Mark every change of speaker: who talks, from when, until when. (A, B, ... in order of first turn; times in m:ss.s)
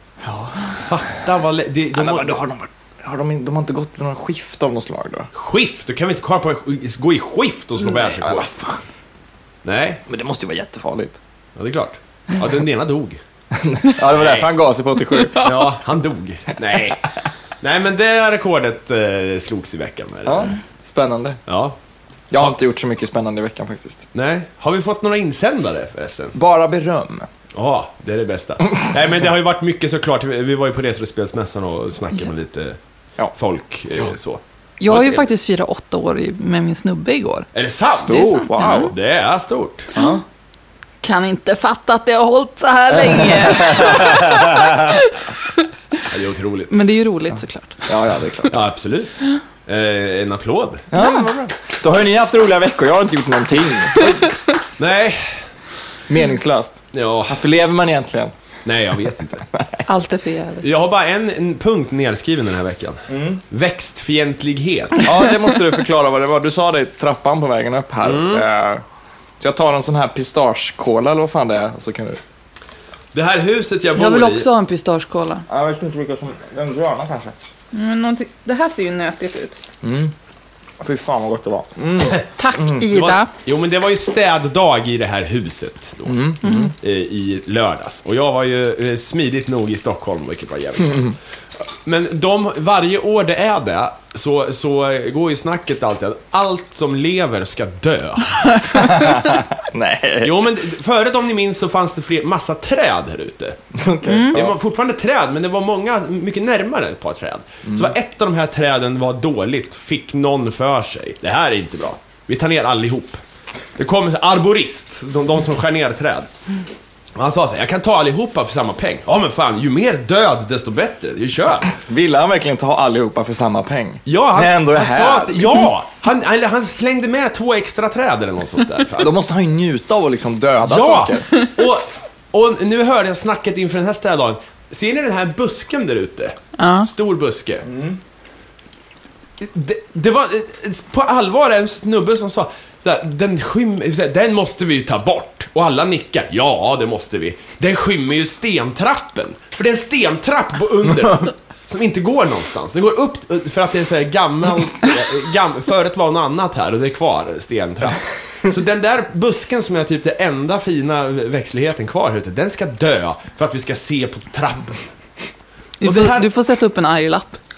0:00.2-0:00.8 A
0:00.7-0:02.4 B
0:01.9-0:05.3 A
0:05.3-0:08.5 B
0:07.9-0:08.8 A
0:09.6-0:10.0 B
0:10.1-0:11.2 A
0:11.6-0:13.2 B
0:13.5-0:15.5 A
0:14.0-0:14.5 B
0:15.3-0:17.1 B
0:17.6-0:20.5 B
0:20.2-0:21.4 A
0:21.5-0:21.8 B
0:22.3-0:24.0 A
0:24.1-0:26.4 B
0:26.3-0:27.3 A
0:27.5-0:32.8 B
0:33.4-0:35.2 B
0:34.8-0:37.5 C
0:37.5-0:39.9 B
0:37.9-0:38.9 A
0:38.1-0:38.9 C
0:39.9-0:40.2 A
0:40.0-0:40.2 C
0:41.0-0:45.6 C
0:43.0-0:45.0 A
0:46.0-0:46.8 B
0:46.7-0:47.8 C
0:47.8-0:48.6 A
0:48.5-0:50.8 B
0:50.9-0:54.4 A
0:54.8-0:55.4 B
0:56.1-0:58.3 A
0:56.9-0:57.4 B
0:58.6-0:59.4 B
0:59.5-0:59.8 A
0:59.8-1:00.7 C
1:00.6-1:05.1 B
1:03.1-1:03.4 A
1:05.0-1:08.8 A
1:08.0-1:08.4 B
1:09.4-1:12.2 A
1:13.1-1:14.5 B
1:13.9-1:15.4 C
1:15.5-1:17.4 A
1:17.7-1:19.6 C
1:19.8-1:20.1 A
1:20.8-1:22.9 A
1:22.4-1:23.3 C
1:22.9-1:31.2 B
1:26.0-1:26.7 A
1:26.4-1:26.7 C
1:31.8-1:39.0 B
1:38.7-1:40.4 A
1:40.2-1:43.6 B
1:43.7-1:44.6 A
1:44.1-1:44.4 C
1:44.3-1:53.2 B
1:47.6-1:47.9 A
1:53.8-1:56.3 B
1:57.1-2:01.8 B
2:01.8-2:05.6 A
2:04.0-2:09.1 B
2:09.0-2:11.3 A
2:10.6-2:17.6 B
2:16.6-2:16.9 C
2:17.6-2:18.0 A
2:19.4-2:44.8 B
2:45.8-2:47.4 C
2:45.8-2:46.3 B